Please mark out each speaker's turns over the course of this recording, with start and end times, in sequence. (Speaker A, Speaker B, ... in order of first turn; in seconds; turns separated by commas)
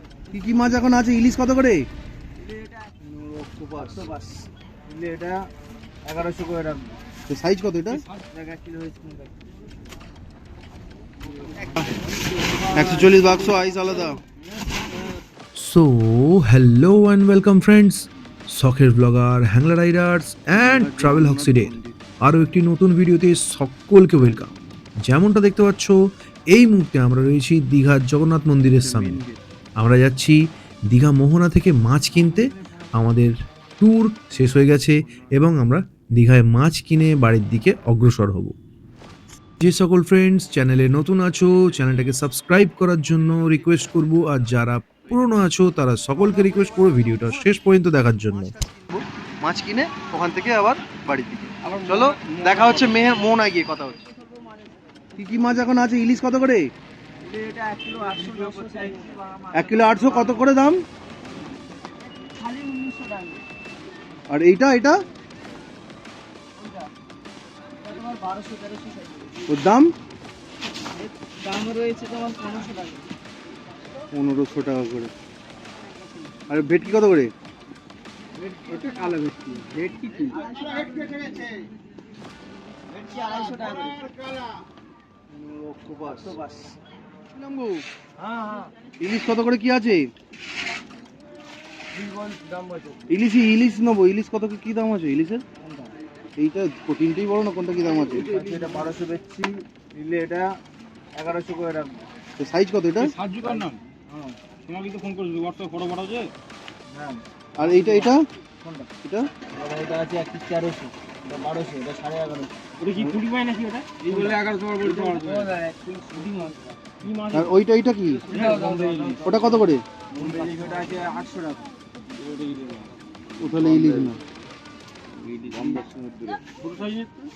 Speaker A: 0.3-1.8, Speaker A: 3.1-4.1, Speaker B: 3.8-5.4, Speaker B: 6.0-6.9, Speaker A: 7.3-8.0, Speaker C: 7.9-8.2, Speaker B: 8.3-9.5, Speaker B: 12.5-13.5, Speaker A: 12.7-14.2, Speaker C: 12.8-13.0, Speaker D: 15.6-24.5, Speaker A: 20.5-22.0, Speaker D: 25.0-26.0, Speaker D: 26.5-29.2, Speaker A: 28.8-29.4, Speaker D: 29.8-38.5, Speaker A: 34.5-35.3, Speaker D: 39.6-48.5, Speaker A: 43.5-43.8, Speaker A: 46.1-47.5, Speaker A: 48.3-54.0, Speaker C: 51.6-53.1, Speaker A: 55.2-56.7, Speaker B: 57.2-60.5, Speaker C: 58.0-58.9, Speaker A: 59.5-60.8, Speaker B: 62.3-63.4, Speaker A: 64.3-65.0, Speaker B: 67.8-69.5, Speaker A: 69.5-69.9, Speaker B: 71.1-73.1, Speaker A: 74.1-75.1, Speaker A: 76.5-77.3, Speaker B: 78.5-79.2, Speaker C: 78.7-80.4, Speaker B: 80.0-81.6, Speaker B: 82.9-84.0, Speaker B: 85.3-86.7, Speaker A: 85.8-86.4, Speaker A: 87.3-87.8, Speaker A: 89.0-90.1, Speaker B: 92.0-93.0, Speaker C: 92.3-92.8, Speaker A: 93.1-95.4, Speaker B: 95.6-95.9, Speaker A: 96.4-98.3, Speaker B: 98.0-100.5, Speaker C: 98.3-98.9, Speaker B: 101.2-102.1, Speaker A: 102.4-103.1, Speaker C: 103.0-103.8, Speaker B: 103.5-104.3, Speaker C: 104.7-106.3, Speaker B: 106.9-108.9, Speaker A: 107.6-108.2, Speaker A: 109.0-109.3, Speaker B: 109.5-113.0, Speaker C: 112.8-115.6, Speaker B: 114.8-116.7, Speaker C: 116.1-117.5, Speaker A: 117.3-118.3, Speaker C: 118.2-119.6, Speaker B: 118.3-119.4, Speaker A: 119.2-119.8, Speaker B: 120.1-121.6, Speaker C: 120.2-120.9, Speaker C: 122.2-122.8, Speaker A: 123.4-124.2, Speaker A: 125.3-126.4, Speaker C: 126.6-127.1